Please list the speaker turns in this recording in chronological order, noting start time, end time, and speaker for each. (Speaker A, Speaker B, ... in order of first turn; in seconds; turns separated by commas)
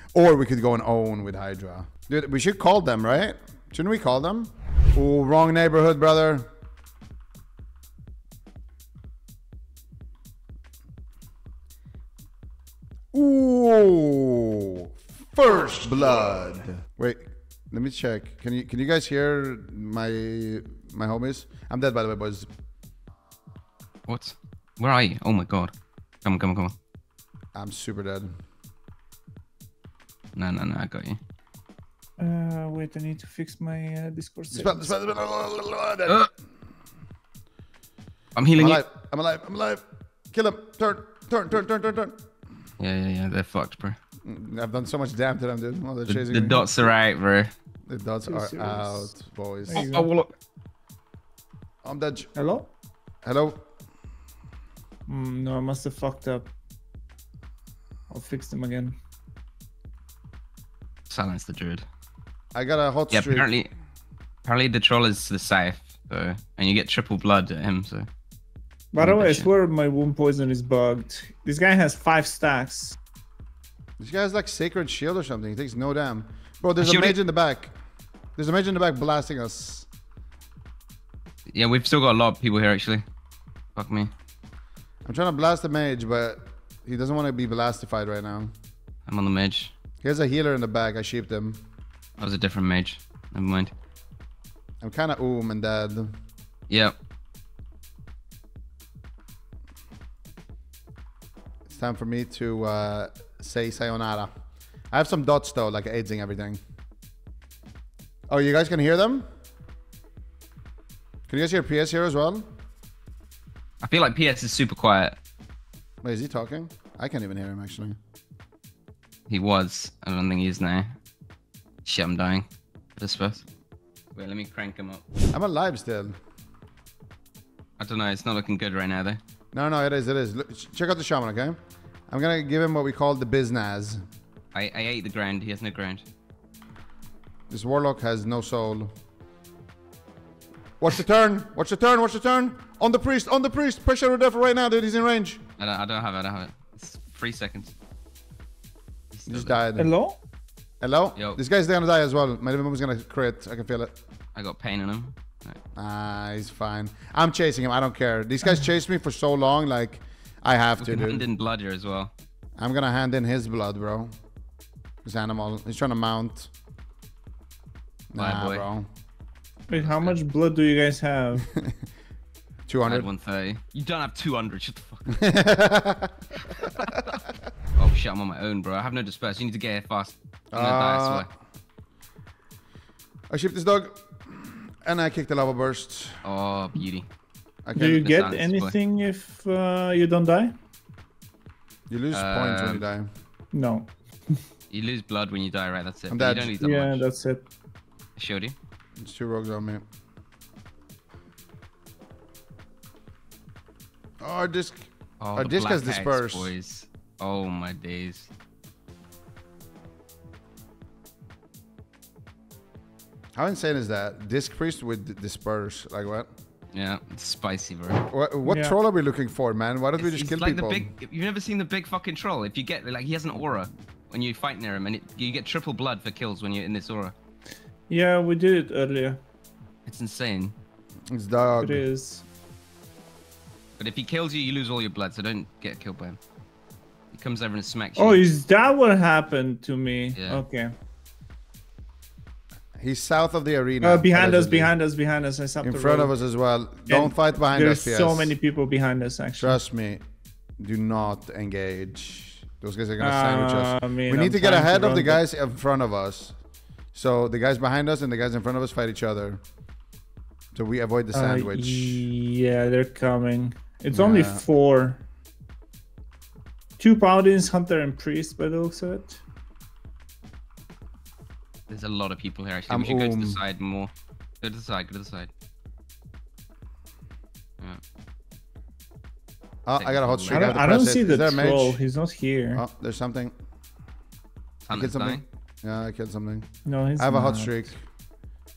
Speaker A: 0.1-6.5, Speaker A: 13.1-22.5, Speaker B: 24.1-25.7, Speaker B: 26.2-26.7, Speaker A: 27.5-28.3, Speaker B: 30.4-31.2, Speaker C: 32.2-34.9, Speaker A: 34.5-36.2, Speaker B: 38.4-38.8, Speaker A: 38.5-42.2, Speaker B: 42.8-44.0, Speaker A: 44.2-46.9, Speaker B: 46.0-47.5, Speaker A: 47.9-49.9, Speaker C: 48.2-49.1, Speaker C: 49.7-50.1, Speaker B: 49.7-50.3, Speaker A: 51.8-52.3, Speaker C: 52.3-52.7, Speaker A: 53.2-53.6, Speaker C: 55.1-56.5, Speaker C: 58.1-59.0, Speaker B: 61.1-61.9, Speaker A: 62.5-63.5, Speaker B: 63.1-63.7, Speaker B: 64.4-68.1, Speaker C: 68.9-73.0, Speaker B: 69.0-69.5, Speaker A: 74.0-77.7, Speaker B: 76.8-77.2, Speaker A: 78.3-79.9, Speaker B: 81.5-83.0, Speaker B: 83.8-84.1, Speaker A: 85.0-88.5, Speaker B: 89.0-89.7, Speaker A: 90.0-91.6, Speaker B: 92.2-93.7, Speaker A: 94.8-96.1, Speaker B: 96.7-96.9, Speaker A: 101.7-104.3, Speaker A: 104.9-106.6, Speaker A: 108.3-109.2, Speaker A: 111.3-112.4, Speaker B: 113.8-115.2, Speaker A: 116.0-118.0, Speaker B: 119.3-120.9, Speaker B: 121.8-122.4, Speaker B: 123.0-123.4, Speaker B: 124.2-125.0, Speaker A: 125.3-126.2, Speaker B: 127.8-129.2, Speaker A: 129.5-131.6, Speaker A: 132.1-134.0, Speaker B: 134.5-136.1, Speaker A: 137.5-138.9, Speaker A: 140.8-145.4, Speaker B: 145.6-147.7, Speaker B: 149.1-149.6, Speaker A: 149.3-149.9, Speaker C: 149.8-150.2, Speaker A: 150.8-153.9, Speaker B: 151.1-151.4, Speaker B: 154.3-155.6, Speaker A: 155.7-161.2, Speaker B: 160.8-162.1, Speaker A: 162.6-164.1, Speaker A: 165.0-166.5, Speaker A: 168.1-168.9, Speaker B: 168.2-168.7, Speaker C: 169.7-171.4, Speaker B: 169.7-170.2, Speaker A: 172.7-173.1, Speaker B: 172.8-175.2, Speaker A: 175.1-176.1, Speaker B: 176.6-176.8, Speaker A: 176.8-177.1, Speaker B: 177.7-181.3, Speaker A: 180.5-181.3, Speaker A: 183.3-186.2, Speaker B: 186.2-187.1, Speaker A: 187.6-188.1, Speaker C: 187.7-190.5, Speaker B: 187.8-188.8, Speaker A: 191.9-193.1, Speaker B: 192.1-192.8, Speaker C: 193.5-193.9, Speaker B: 194.7-197.0, Speaker A: 196.1-196.5, Speaker C: 196.6-197.4, Speaker B: 198.2-198.5, Speaker A: 199.0-199.8, Speaker A: 204.2-206.5, Speaker B: 205.2-208.3, Speaker A: 213.3-216.3, Speaker B: 216.7-218.0, Speaker A: 218.1-220.9, Speaker C: 218.4-218.8, Speaker B: 220.0-227.1, Speaker C: 227.9-229.2, Speaker B: 229.8-230.5, Speaker A: 231.1-231.8, Speaker C: 231.6-232.2, Speaker B: 233.8-236.2, Speaker B: 237.1-238.2, Speaker C: 238.0-240.7, Speaker B: 240.1-240.4, Speaker A: 242.8-244.7, Speaker C: 243.8-246.1, Speaker A: 245.6-248.3, Speaker C: 246.9-249.6, Speaker A: 249.4-250.0, Speaker A: 250.6-256.4, Speaker C: 253.0-255.2, Speaker A: 256.9-259.4, Speaker A: 260.5-262.0, Speaker C: 261.1-265.0, Speaker A: 263.9-264.4, Speaker C: 266.8-269.2, Speaker B: 271.7-275.3, Speaker A: 272.7-273.4, Speaker A: 279.6-281.8, Speaker B: 279.8-280.5, Speaker C: 280.3-282.6, Speaker A: 282.5-283.3, Speaker B: 284.6-285.2, Speaker A: 284.7-286.5, Speaker C: 286.6-287.7, Speaker A: 287.0-287.8